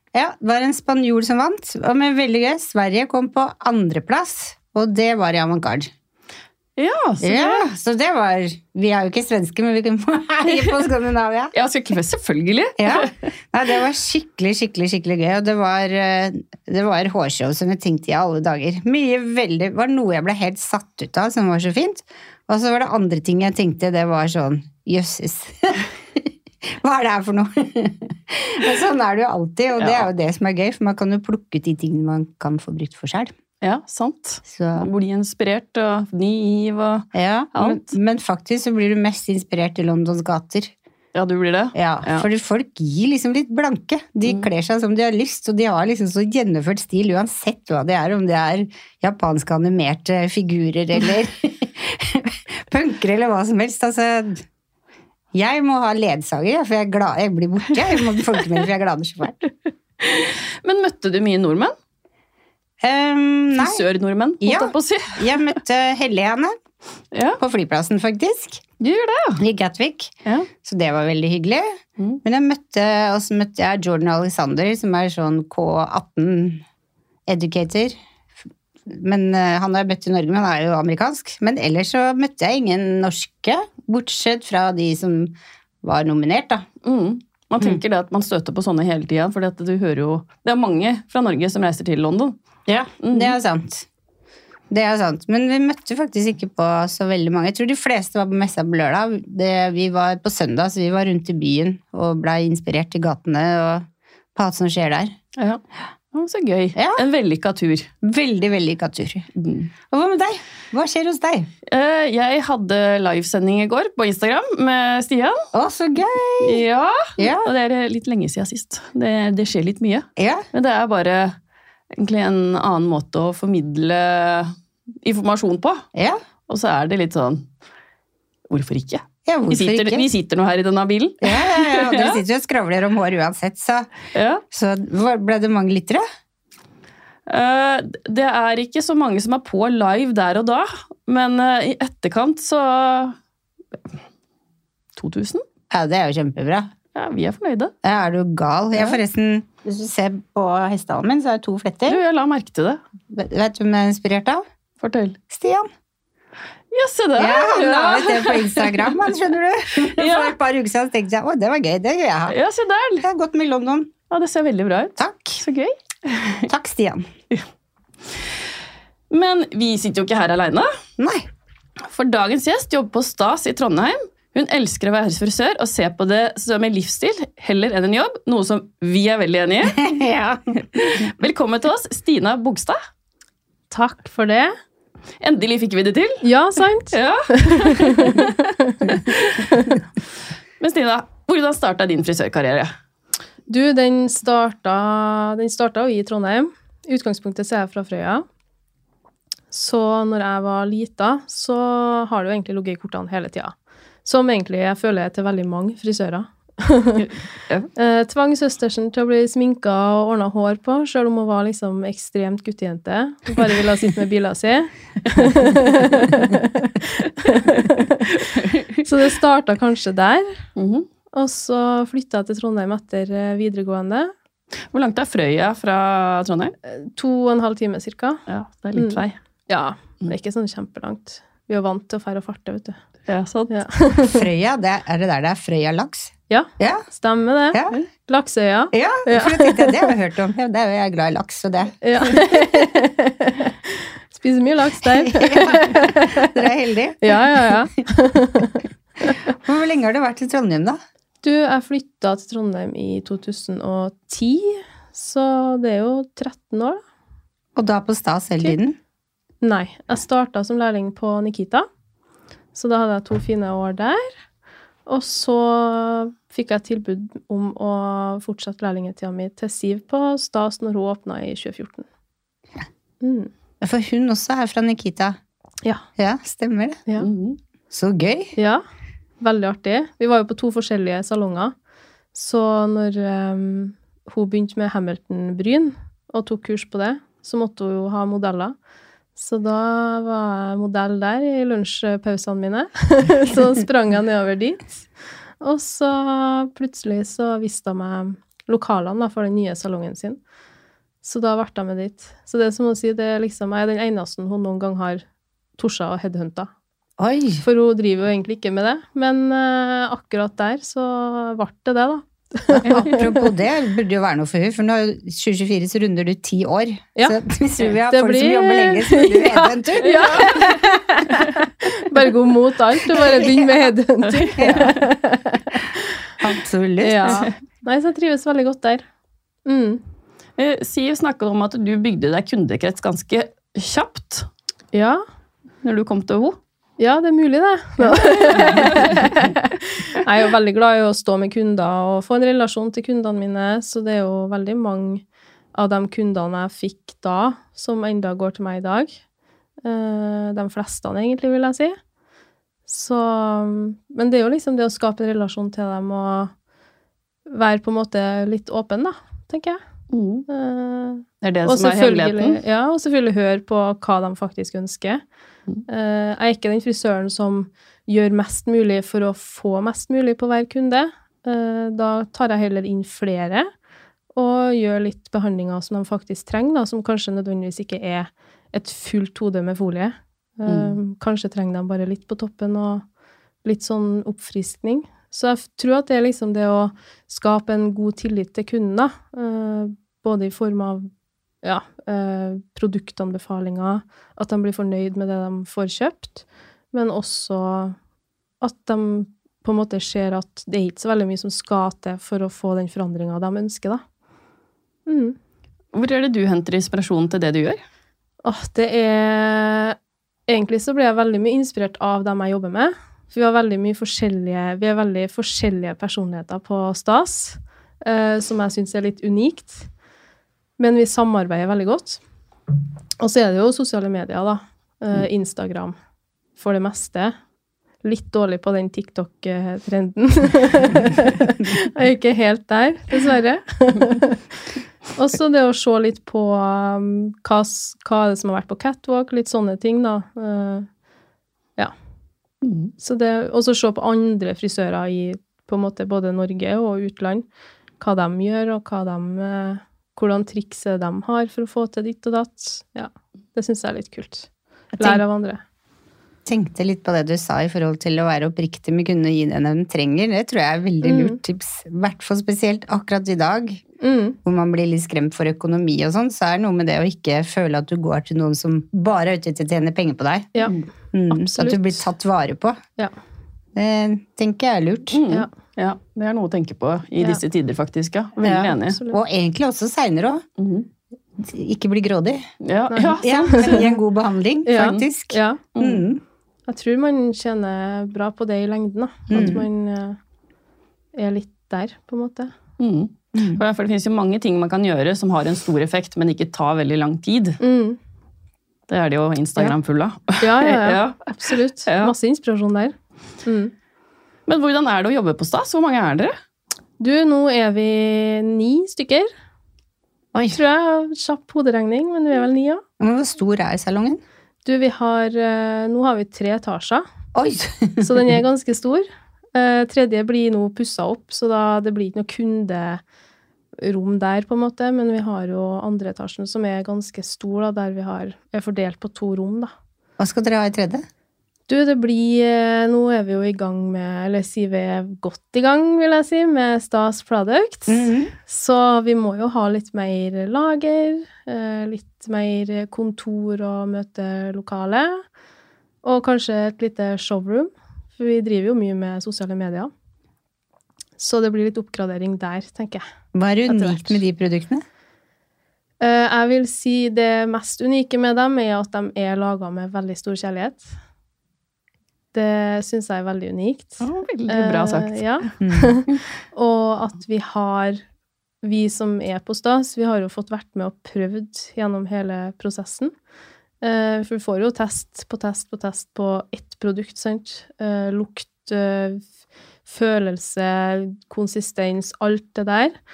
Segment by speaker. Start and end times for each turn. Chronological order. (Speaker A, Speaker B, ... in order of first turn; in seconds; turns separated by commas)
Speaker A: 0.1-5.9, Speaker B: 6.8-7.7, Speaker A: 7.2-11.5, Speaker B: 11.5-13.3, Speaker A: 12.8-33.3, Speaker B: 29.8-30.1, Speaker B: 33.6-37.9, Speaker A: 34.5-34.9, Speaker A: 37.1-40.7, Speaker B: 41.1-42.3, Speaker A: 41.7-54.4, Speaker A: 55.3-59.4, Speaker B: 60.0-61.7, Speaker A: 62.8-63.8, Speaker B: 63.5-65.5, Speaker A: 64.4-66.5, Speaker B: 67.1-67.4, Speaker A: 67.4-68.6, Speaker B: 68.8-69.4, Speaker A: 69.4-76.6, Speaker A: 77.3-78.0, Speaker A: 78.9-86.6, Speaker B: 86.8-92.3, Speaker A: 92.7-93.8, Speaker B: 93.0-93.3, Speaker A: 94.7-105.1, Speaker B: 106.1-107.9, Speaker A: 106.7-107.0, Speaker A: 108.0-109.3, Speaker B: 109.4-109.7, Speaker A: 109.9-111.5, Speaker B: 111.7-115.4, Speaker A: 115.5-116.6, Speaker B: 116.4-121.3, Speaker A: 117.2-117.5, Speaker A: 120.2-120.4, Speaker B: 122.0-125.8, Speaker A: 125.9-126.2, Speaker B: 126.5-127.5, Speaker B: 128.5-132.2, Speaker A: 129.2-130.1, Speaker A: 131.2-133.9, Speaker B: 134.1-134.4, Speaker A: 134.5-136.0, Speaker B: 137.3-143.2, Speaker B: 144.9-145.4, Speaker A: 145.7-146.7, Speaker B: 146.9-147.7, Speaker A: 147.8-152.0, Speaker B: 151.9-152.8, Speaker A: 153.1-154.4, Speaker B: 154.8-155.2, Speaker A: 155.3-155.7, Speaker B: 156.7-159.0, Speaker A: 157.2-162.3, Speaker B: 159.9-160.3, Speaker B: 162.3-163.0, Speaker A: 163.0-163.9, Speaker B: 164.1-166.5, Speaker A: 165.0-165.4, Speaker A: 166.5-167.1, Speaker B: 169.1-170.7, Speaker A: 171.0-171.3, Speaker B: 171.8-179.8, Speaker A: 179.7-181.0, Speaker B: 180.8-182.8, Speaker C: 183.7-184.5, Speaker B: 185.2-186.2, Speaker C: 186.2-189.7, Speaker B: 186.9-188.4, Speaker B: 189.1-189.5, Speaker B: 190.6-192.7, Speaker C: 193.5-198.2, Speaker C: 199.5-207.1, Speaker B: 207.0-207.7, Speaker C: 207.7-218.1, Speaker B: 218.2-218.8, Speaker C: 218.8-220.4, Speaker B: 220.6-220.9, Speaker C: 221.1-224.1, Speaker B: 224.7-226.5, Speaker C: 226.6-228.2, Speaker B: 228.3-229.1, Speaker C: 228.8-232.8, Speaker B: 233.1-233.6, Speaker C: 233.5-234.2, Speaker A: 234.0-236.8, Speaker C: 236.3-239.9, Speaker A: 237.5-237.8, Speaker A: 238.7-242.2, Speaker C: 241.8-246.3, Speaker A: 244.8-247.6, Speaker C: 247.0-249.1, Speaker A: 249.3-250.8, Speaker C: 251.2-256.8, Speaker A: 257.5-258.8, Speaker C: 259.4-261.7, Speaker C: 262.5-264.1, Speaker C: 264.9-271.9, Speaker C: 273.0-273.3, Speaker A: 273.6-275.2, Speaker A: 276.0-276.8, Speaker B: 277.0-277.4, Speaker A: 277.7-278.3, Speaker C: 278.4-278.6, Speaker C: 279.2-281.5, Speaker C: 282.1-288.5, Speaker C: 289.1-294.7, Speaker C: 295.4-300.2, Speaker C: 301.0-305.0, Speaker C: 305.6-306.5, Speaker A: 307.0-307.4, Speaker C: 307.4-313.3, Speaker A: 312.5-320.5, Speaker C: 317.9-325.8, Speaker B: 319.9-320.5, Speaker A: 323.1-323.4, Speaker B: 324.1-324.8, Speaker A: 324.4-324.7, Speaker A: 326.2-327.3, Speaker C: 326.8-328.8, Speaker C: 329.4-329.8, Speaker B: 330.4-334.3, Speaker C: 334.7-335.0, Speaker B: 335.6-336.4, Speaker C: 336.8-349.0, Speaker B: 337.9-339.0, Speaker C: 349.6-351.8, Speaker C: 352.7-356.3, Speaker C: 357.3-359.6, Speaker B: 359.9-360.3, Speaker C: 360.3-365.0, Speaker B: 361.2-362.4, Speaker C: 365.7-373.5, Speaker C: 374.1-382.8, Speaker B: 380.5-380.7, Speaker C: 383.4-390.9, Speaker C: 391.4-397.8, Speaker C: 398.4-403.8, Speaker C: 404.9-405.1, Speaker B: 405.7-407.6, Speaker C: 408.2-409.8, Speaker C: 410.3-419.7, Speaker C: 420.6-422.0, Speaker C: 423.0-425.7, Speaker C: 426.4-427.1, Speaker C: 427.8-434.4, Speaker C: 434.9-440.7, Speaker B: 442.4-442.7, Speaker C: 442.8-447.2, Speaker C: 447.8-455.4, Speaker A: 456.2-463.6, Speaker C: 460.8-461.2, Speaker C: 463.8-464.2, Speaker A: 464.2-470.3, Speaker A: 470.9-472.6, Speaker C: 471.1-471.8, Speaker A: 473.5-475.0, Speaker B: 474.9-478.8, Speaker A: 478.2-480.2, Speaker C: 478.6-479.0, Speaker B: 480.4-480.7, Speaker A: 481.2-482.2, Speaker B: 482.4-483.6, Speaker C: 482.7-483.8, Speaker A: 483.0-486.0, Speaker C: 484.4-485.4, Speaker B: 484.5-484.8, Speaker B: 485.6-485.8, Speaker C: 486.5-490.0, Speaker A: 489.1-489.4, Speaker C: 490.9-492.3, Speaker B: 492.6-497.4, Speaker A: 493.1-493.4, Speaker C: 497.4-497.8, Speaker B: 498.7-501.1, Speaker C: 500.2-503.5, Speaker B: 501.6-501.9, Speaker B: 504.3-506.1, Speaker C: 506.8-509.1, Speaker A: 510.1-510.4, Speaker C: 510.3-512.6, Speaker A: 512.8-514.0, Speaker C: 514.4-516.8, Speaker A: 517.1-518.0, Speaker C: 517.8-522.8, Speaker C: 523.6-529.5, Speaker A: 530.0-530.8, Speaker C: 531.5-545.0, Speaker A: 537.7-538.1, Speaker C: 545.8-549.7, Speaker C: 551.0-552.8, Speaker A: 553.1-554.6, Speaker C: 553.5-554.0, Speaker C: 555.8-560.7, Speaker C: 562.1-567.8, Speaker B: 563.8-565.3, Speaker A: 565.4-565.8, Speaker C: 568.4-572.9, Speaker C: 573.6-579.0, Speaker C: 579.6-582.7